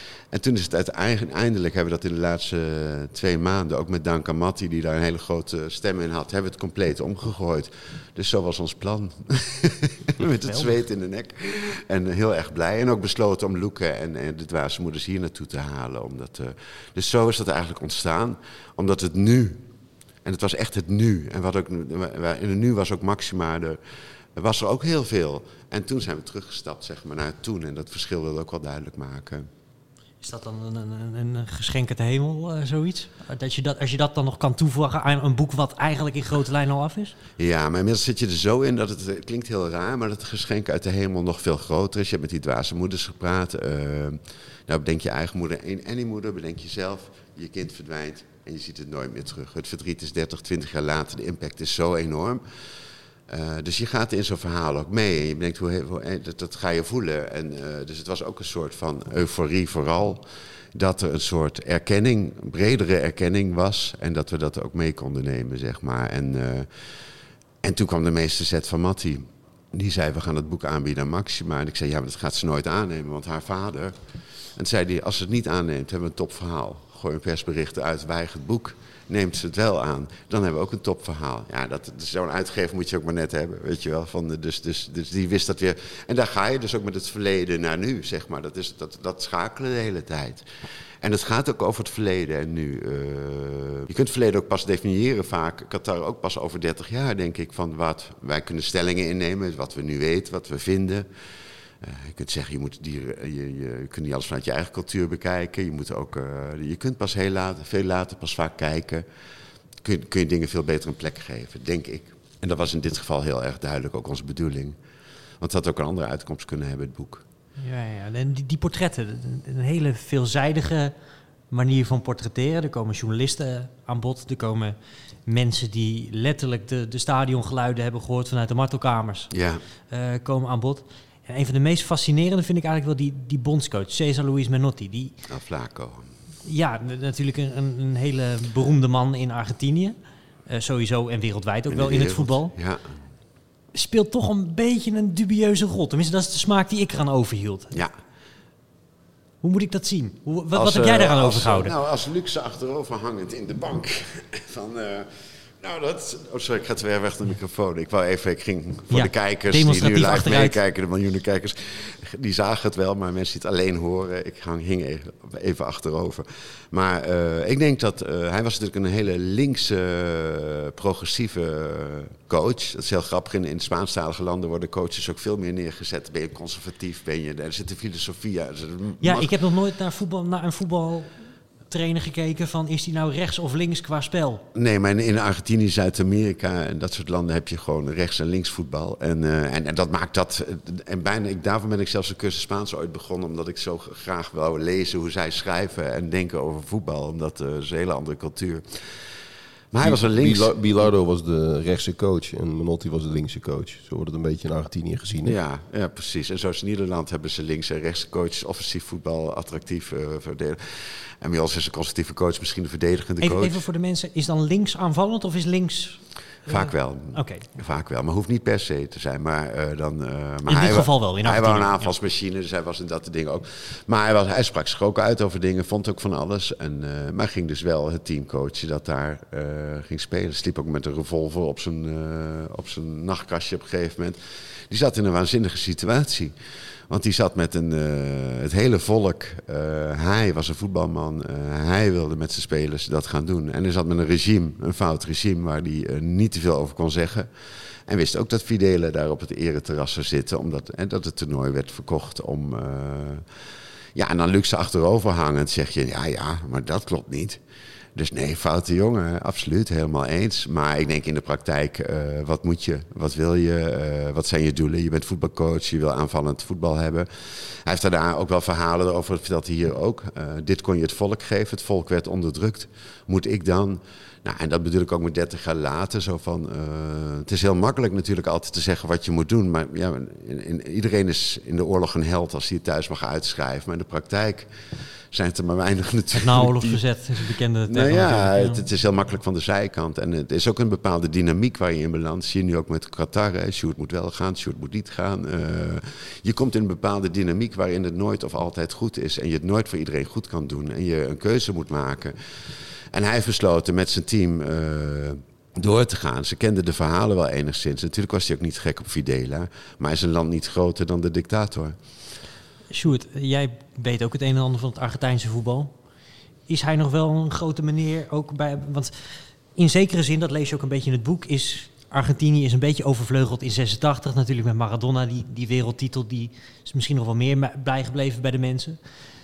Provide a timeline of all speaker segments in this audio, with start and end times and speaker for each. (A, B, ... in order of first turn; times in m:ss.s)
0:00.3-0:19.6 A
0:10.4-0:10.8 B
0:20.2-0:23.8 A
0:24.4-0:29.5 A
0:30.2-0:37.2 B
0:37.4-0:52.4 A
0:53.3-1:00.2 A
1:00.8-1:06.7 A
1:07.6-1:14.0 A
1:14.6-1:30.4 A
1:31.0-1:41.1 A
1:41.8-1:49.0 A
1:49.8-1:54.8 A
1:55.4-1:57.2 A
1:57.6-2:00.9 B
2:01.5-2:09.3 B
2:09.3-2:09.6 A
2:09.9-2:15.2 B
2:15.3-2:16.1 A
2:16.4-2:20.0 B
2:20.5-2:22.5 B
2:21.7-2:22.9 A
2:23.7-2:27.8 B
2:29.4-2:31.7 B
2:30.5-2:35.1 A
2:35.6-2:59.3 A
2:38.9-2:40.6 B
2:59.0-3:01.2 B
3:01.7-3:04.4 B
3:04.5-3:19.1 A
3:19.7-3:20.9 A
3:19.8-3:25.4 C
3:25.2-3:33.6 A
3:33.2-3:37.5 B
3:36.5-3:54.2 A
3:40.5-3:41.9 B
3:54.7-3:56.3 A
3:56.9-4:07.3 A
4:07.9-4:13.2 A
4:14.0-4:17.4 A
4:18.0-4:44.5 A
4:45.1-4:46.8 A
4:46.1-4:48.6 B
4:47.7-5:02.2 A
5:02.9-5:11.8 A
5:12.7-5:15.7 B
5:16.5-5:28.8 B